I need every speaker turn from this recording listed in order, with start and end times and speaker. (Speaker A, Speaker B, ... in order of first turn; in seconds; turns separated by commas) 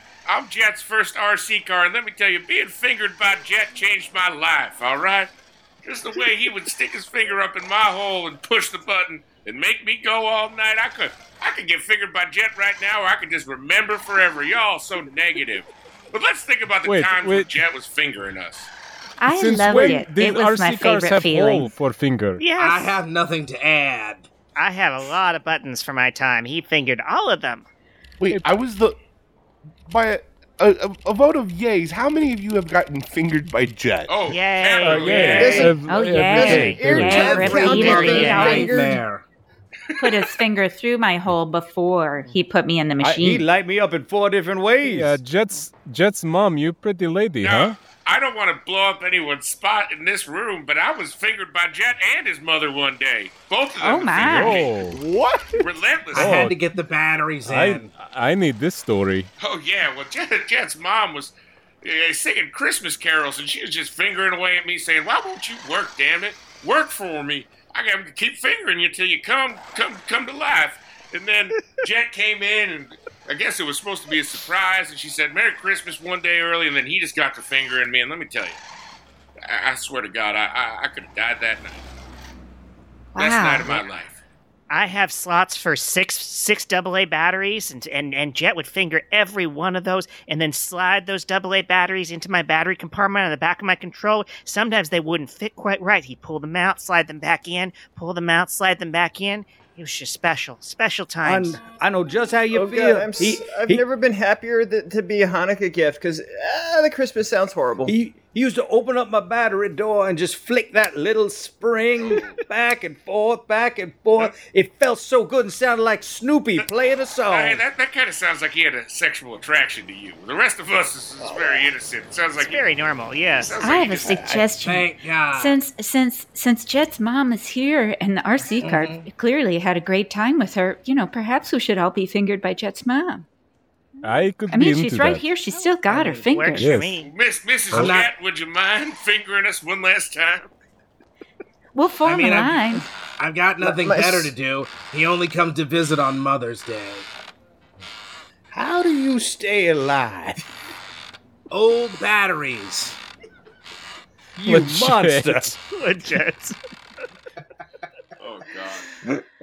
Speaker A: 0.3-5.3, Speaker A: 5.8-18.7, Speaker B: 16.9-17.5, Speaker C: 19.2-21.7, Speaker B: 19.3-22.4, Speaker D: 22.4-22.9, Speaker E: 22.6-24.3, Speaker D: 24.6-27.7, Speaker F: 28.2-29.0, Speaker F: 29.9-34.2, Speaker A: 34.1-35.8, Speaker D: 34.3-35.8, Speaker B: 34.8-37.3, Speaker G: 35.2-39.0, Speaker C: 35.8-38.9, Speaker D: 36.4-36.7, Speaker E: 36.9-39.2, Speaker D: 37.7-38.5, Speaker A: 39.9-40.3, Speaker C: 40.0-43.5, Speaker H: 43.0-45.2, Speaker B: 44.8-47.8, Speaker A: 47.4-54.7, Speaker C: 53.8-54.7, Speaker B: 54.2-55.0, Speaker F: 54.9-55.6, Speaker A: 55.6-56.5, Speaker B: 56.1-56.6, Speaker E: 56.1-57.9, Speaker B: 57.5-59.3, Speaker A: 59.4-78.6, Speaker A: 79.4-81.8, Speaker C: 83.2-83.8, Speaker A: 83.2-84.2, Speaker D: 84.7-101.6, Speaker H: 101.2-103.8, Speaker G: 102.5-108.0, Speaker H: 107.8-117.6, Speaker A: 112.0-112.4, Speaker A: 117.3-122.6, Speaker H: 121.2-121.6, Speaker D: 122.4-123.5, Speaker A: 123.4-124.3, Speaker C: 123.6-133.3, Speaker H: 124.1-124.4, Speaker E: 124.6-125.6, Speaker E: 128.6-129.1, Speaker B: 134.0-135.3, Speaker C: 134.5-136.8, Speaker H: 135.9-136.2, Speaker D: 136.3-137.1, Speaker B: 136.6-136.9, Speaker A: 137.0-140.5, Speaker E: 137.7-138.1, Speaker C: 141.8-142.9, Speaker E: 142.0-147.1, Speaker G: 143.6-144.3, Speaker H: 148.5-150.4, Speaker E: 151.5-153.0, Speaker H: 154.4-155.6, Speaker B: 154.5-155.5, Speaker D: 155.7-156.6, Speaker A: 158.2-158.9